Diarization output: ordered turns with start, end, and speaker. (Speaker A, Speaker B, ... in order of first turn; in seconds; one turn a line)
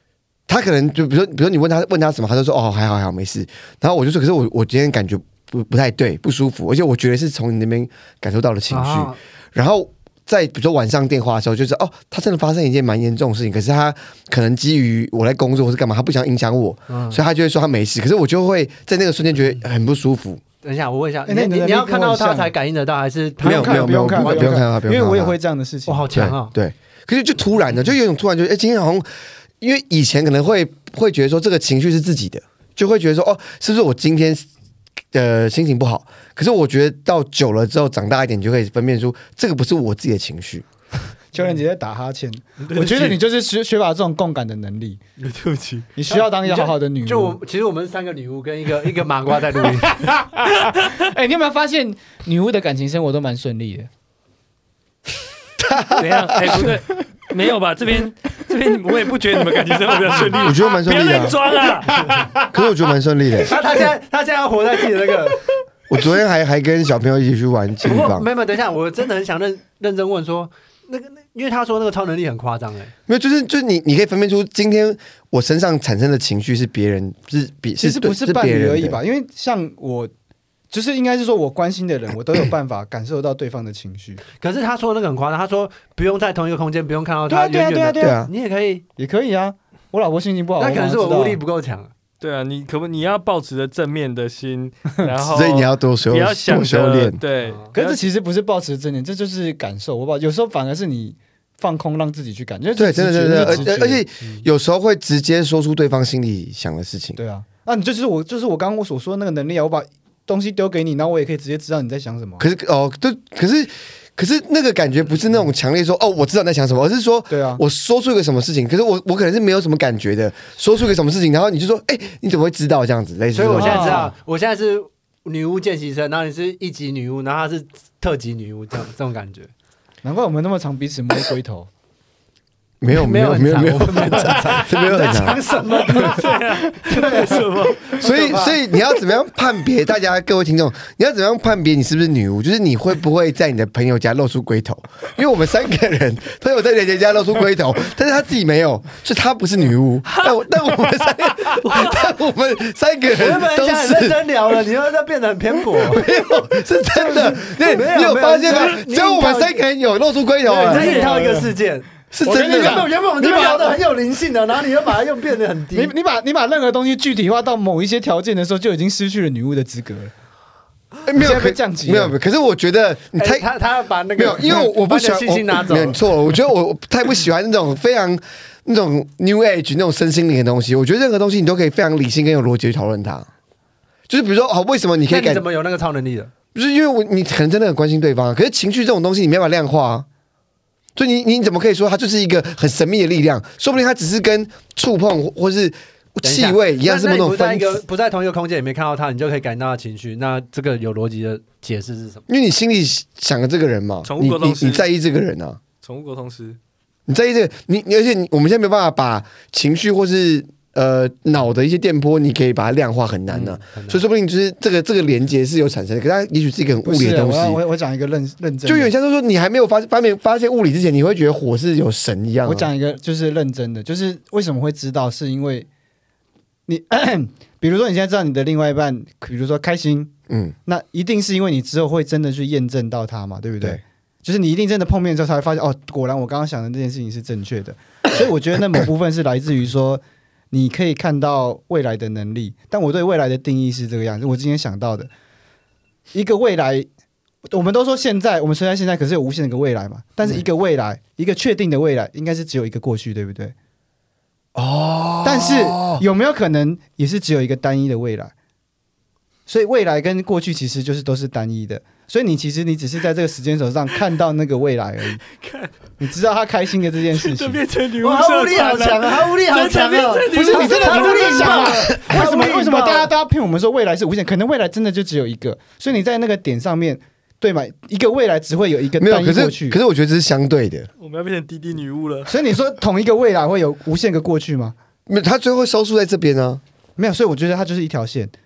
Speaker A: 0.5-20.4
Speaker B: 8.7-9.2
Speaker B: 16.9-17.2
Speaker B: 20.6-24.6
Speaker C: 21.3-22.5
Speaker C: 23.4-26.3
Speaker A: 23.4-25.4
Speaker B: 25.9-26.5
Speaker A: 26.1-29.1
Speaker A: 29.6-34.5
Speaker A: 35.1-40.7
Speaker C: 41.3-45.0
Speaker D: 42.6-43.2
Speaker D: 45.2-45.9
Speaker C: 46.0-47.4
Speaker B: 46.1-50.0
Speaker C: 49.7-53.9
Speaker D: 50.5-51.1
Speaker A: 55.6-56.6
Speaker D: 55.9-62.0
Speaker C: 60.0-60.3
Speaker A: 60.2-61.4
Speaker C: 61.8-62.5
Speaker A: 62.4-63.5
Speaker B: 63.4-65.4
Speaker A: 65.9-68.3
Speaker B: 67.8-72.9
Speaker A: 73.1-79.0
Speaker C: 77.8-80.1
Speaker C: 80.7-84.2
Speaker B: 84.4-88.8
Speaker C: 87.3-88.2
Speaker A: 88.0-88.3
Speaker C: 89.0-91.4
Speaker B: 90.6-91.9
Speaker D: 92.2-98.0
Speaker A: 95.3-97.2
Speaker C: 97.7-104.0
Speaker A: 102.8-107.2
Speaker B: 103.4-103.7
Speaker C: 107.2-112.4
Speaker A: 112.4-124.1
Speaker C: 117.3-117.6
Speaker B: 123.3-129.5
Speaker C: 123.5-124.1
Speaker C: 130.0-131.7
Speaker A: 132.8-135.4
Speaker B: 132.9-138.6
Speaker D: 135.9-138.0
Speaker A: 137.9-154.2
Speaker D: 150.1-152.2
Speaker B: 153.1-156.2
Speaker A: 155.8-161.1
Speaker B: 157.4-159.6
Speaker B: 160.4-165.9
Speaker C: 160.7-161.5
Speaker A: 162.1-162.9
Speaker C: 162.2-163.8
Speaker C: 165.7-170.1
Speaker A: 171.1-173.5
Speaker C: 171.2-172.2
Speaker B: 173.2-176.0
Speaker A: 174.2-183.3
Speaker A: 184.1-185.4
Speaker B: 185.1-186.3
Speaker A: 186.5-190.1
Speaker A: 191.0-197.8
Speaker B: 196.2-202.2
Speaker A: 202.3-205.6
Speaker D: 204.1-204.8
Speaker D: 205.8-206.6
Speaker A: 207.1-217.6
Speaker B: 213.3-214.0
Speaker C: 216.8-218.9
Speaker A: 218.7-222.7
Speaker C: 222.4-225.7
Speaker C: 226.7-230.1
Speaker A: 230.3-230.6
Speaker C: 230.7-245.1
Speaker C: 246.1-246.9
Speaker C: 247.5-253.5
Speaker A: 254.6-256.0
Speaker C: 255.2-258.3
Speaker C: 259.5-265.2
Speaker D: 265.4-265.7
Speaker C: 266.0-267.6
Speaker D: 267.1-272.0
Speaker B: 268.0-273.1
Speaker C: 270.3-279.8
Speaker A: 279.0-280.9
Speaker D: 281.0-282.4
Speaker C: 282.3-284.8
Speaker A: 285.1-286.6
Speaker C: 287.0-288.3